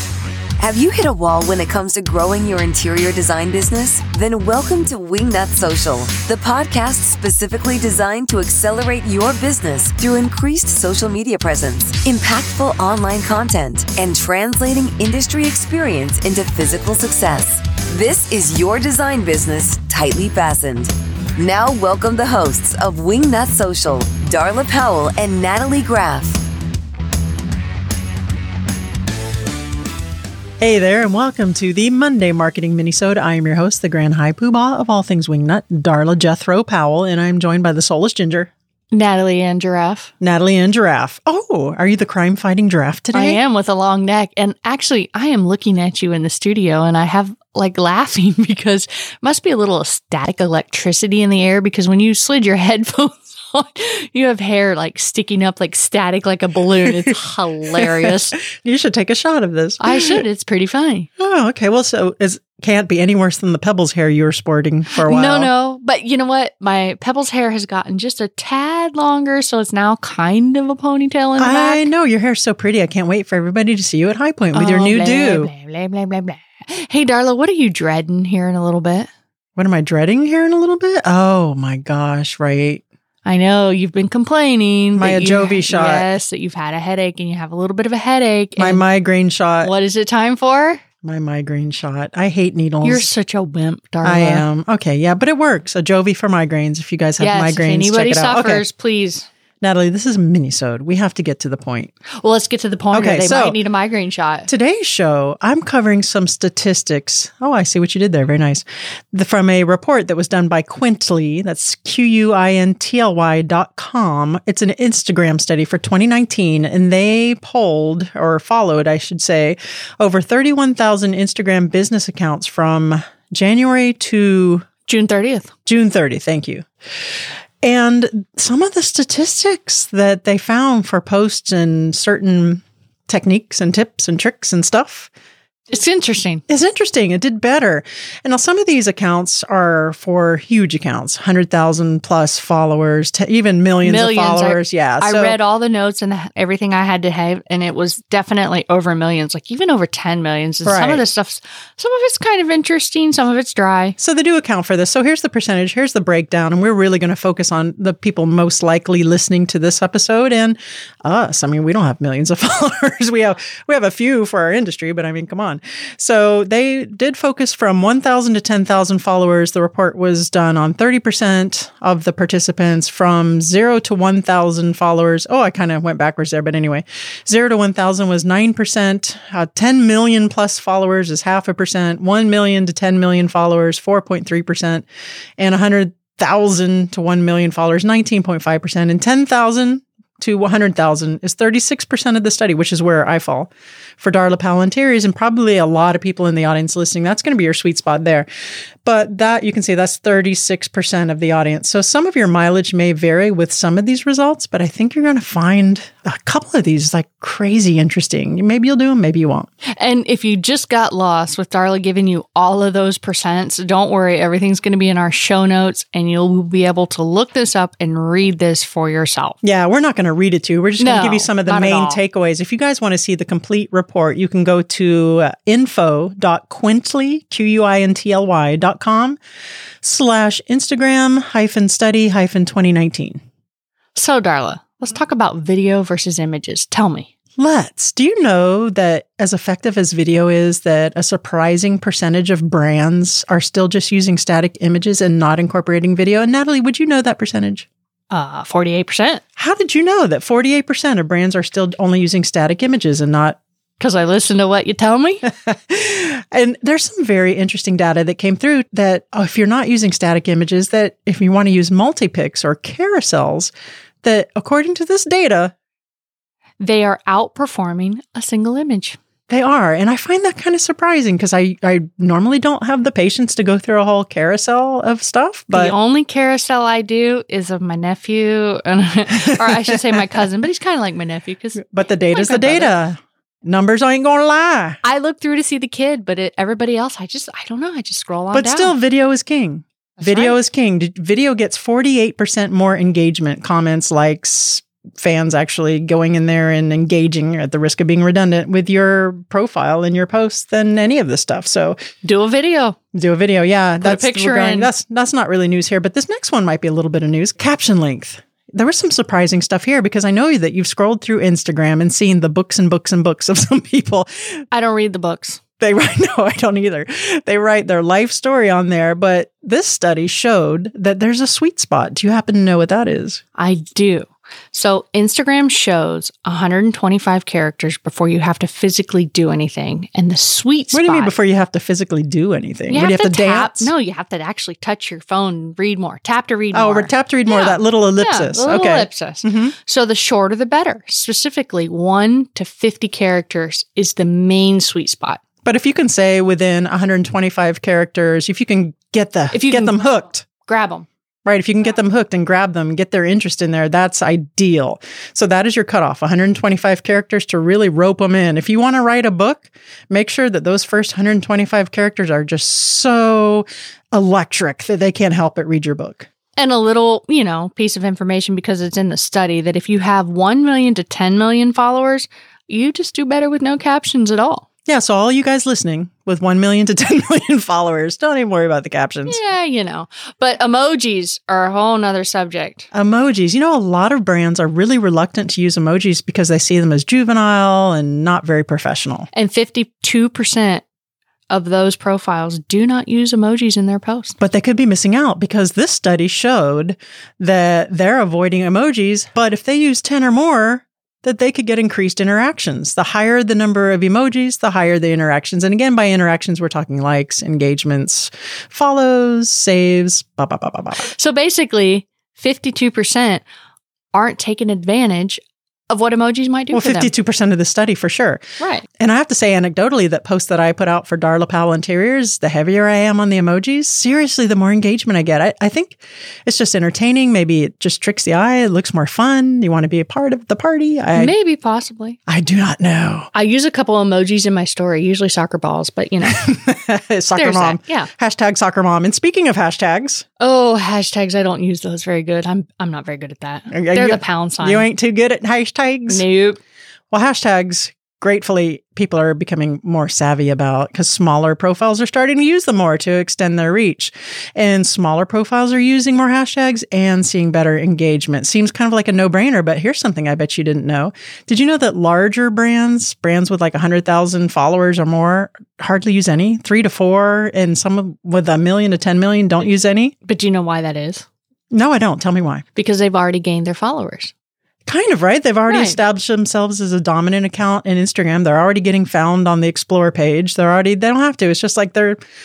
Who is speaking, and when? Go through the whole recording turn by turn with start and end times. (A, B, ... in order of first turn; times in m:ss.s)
0:00.6-0:26.4 A
0:30.6-0:38.5 B
0:38.9-0:40.1 C
0:40.2-0:43.4 B
0:43.1-0:58.4 C
0:57.8-1:00.1 B
0:59.8-1:01.1 C
1:01.2-1:05.5 B
1:04.9-1:11.9 C
1:11.4-1:15.5 B
1:14.5-1:19.1 C
1:19.6-1:22.8 B
1:23.2-1:28.8 C
1:25.0-1:26.1 B
1:28.6-1:29.7 B
1:29.6-1:30.8 C
1:31.0-1:33.1 B
1:32.8-1:34.4 C
1:34.0-1:38.6 B
1:37.2-1:39.3 C
1:39.6-1:41.9 B
1:42.2-1:44.5 C
1:42.9-1:43.6 B
1:44.5-2:04.7 B
2:04.9-2:05.5 C
2:05.6-2:06.6 B
2:07.6-2:15.1 B
2:15.7-2:16.4 C
2:16.5-2:25.4 B
2:23.8-2:34.0 C
2:30.6-2:31.0 B
2:34.0-3:04.8 B
3:05.4-3:18.3 B
3:18.8-3:29.5 B
3:29.8-3:39.4 C
3:39.4-3:49.2 B
3:40.8-3:42.0 C
3:49.8-3:53.2 B
3:53.9-3:57.1 C
3:57.4-4:07.7 B
4:08.1-4:09.2 C
4:09.4-4:13.4 B
4:13.8-4:15.2 C
4:15.2-4:23.5 B
4:24.0-4:25.5 B
4:26.6-4:29.0 C
4:29.3-4:35.7 B
4:35.5-4:42.7 C
4:39.5-4:40.2 B
4:41.6-4:44.8 B
4:44.8-4:48.8 C
4:48.3-5:01.8 B
4:50.0-4:50.4 C
5:02.0-5:02.8 C
5:02.9-5:14.4 B
5:03.8-5:04.7 C
5:14.5-5:15.4 C
5:15.6-5:23.2 B
5:23.4-5:31.1 C
5:30.7-5:33.7 B
5:32.7-5:45.2 C
5:36.5-5:39.5 B
5:45.4-5:50.2 B
5:49.3-5:50.8 C
5:51.2-6:06.1 B
6:06.4-6:14.4 C
6:14.7-6:19.2 B
6:19.1-6:22.7 C
6:22.7-6:29.1 B
6:29.1-6:30.6 C
6:31.3-6:34.1 C
6:34.2-6:50.9 B
6:50.8-6:53.2 C
6:53.9-6:56.9 C
6:56.5-6:58.2 B
6:58.4-6:58.6 C
6:58.8-7:11.1 B
7:10.9-7:12.0 C
7:12.1-7:13.1 B
7:13.1-7:16.4 C
7:16.0-7:20.0 B
7:17.2-7:17.9 C
7:20.2-7:24.7 C
7:23.5-7:26.0 B
7:25.9-7:26.4 C
7:26.9-7:49.9 B
7:50.0-7:51.0 C
7:51.5-7:52.4 B
7:52.6-7:54.1 C
7:54.6-8:02.0 B
7:55.5-7:55.8 C